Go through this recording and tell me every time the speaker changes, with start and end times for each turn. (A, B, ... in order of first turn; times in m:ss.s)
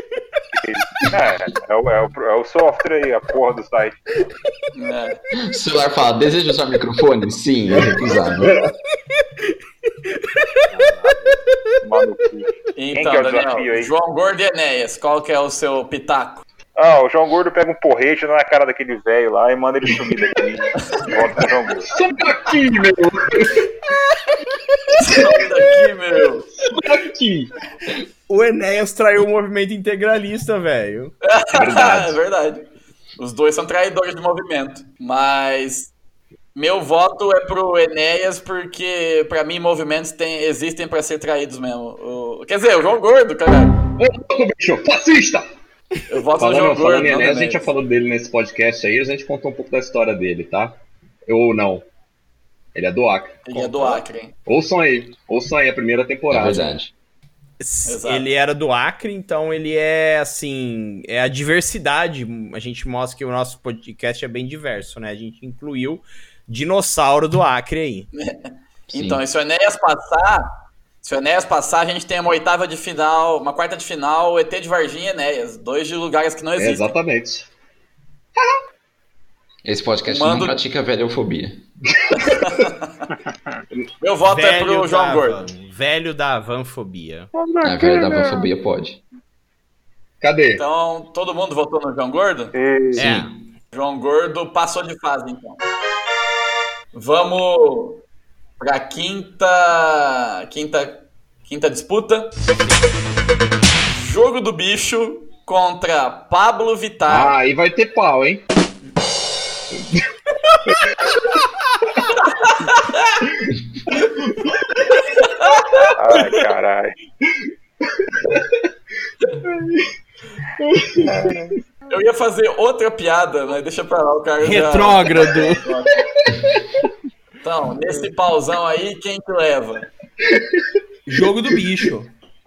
0:00.5-0:04.0 A
0:04.7-0:05.2 B
0:05.4-0:08.6 C
0:10.1-0:10.6 D
0:10.7-0:13.9 A
0:12.8-0:16.4 B
0:16.8-0:21.9 A
0:21.4-0:23.7 E
0:25.0-0:26.5 B
0:26.6-0:27.5 E
0:28.3-0:31.1 D
0:31.2-0:32.7 B
0:31.5-0:32.2 E
0:33.2-0:35.9 B
0:36.6-0:43.8 B
0:44.0-0:45.5 E
0:46.1-0:47.7 B
0:46.4-0:51.8 E
0:52.7-0:56.7 E
0:53.5-0:54.3 B
0:56.3-0:56.9 C
0:57.6-1:08.1 D
0:57.9-0:58.3 B
1:08.2-1:16.9 B
1:08.9-1:09.2 C
1:16.6-1:17.5 E
1:19.6-1:21.6 C
1:20.1-1:20.6 B
1:22.0-1:22.5 E
1:22.2-1:23.0 B
1:24.0-1:25.4 B
1:24.3-1:27.3 D
1:27.4-1:28.5 A
1:27.6-1:29.0 C
1:30.2-1:30.6 E
1:30.6-1:32.5 B
1:32.5-1:33.1 A
1:33.0-1:33.3 D
1:33.7-1:35.6 B
1:36.9-1:38.0 B
1:38.6-1:42.3 B
1:43.9-1:47.4 B
1:47.1-1:48.4 E
1:49.7-1:50.0 E
1:50.6-1:51.1 E
1:52.2-1:53.2 B
1:53.9-1:55.0 E
1:55.2-1:56.4 B
1:56.0-1:57.0 A
1:58.0-1:58.6 E
1:59.4-1:59.9 E
2:00.6-2:01.3 E
2:01.0-2:01.6 A
2:01.9-2:06.0 B
2:04.4-2:05.6 D
2:06.0-2:06.8 E
2:07.4-2:09.9 B
2:10.3-2:10.6 E
2:11.1-2:12.1 D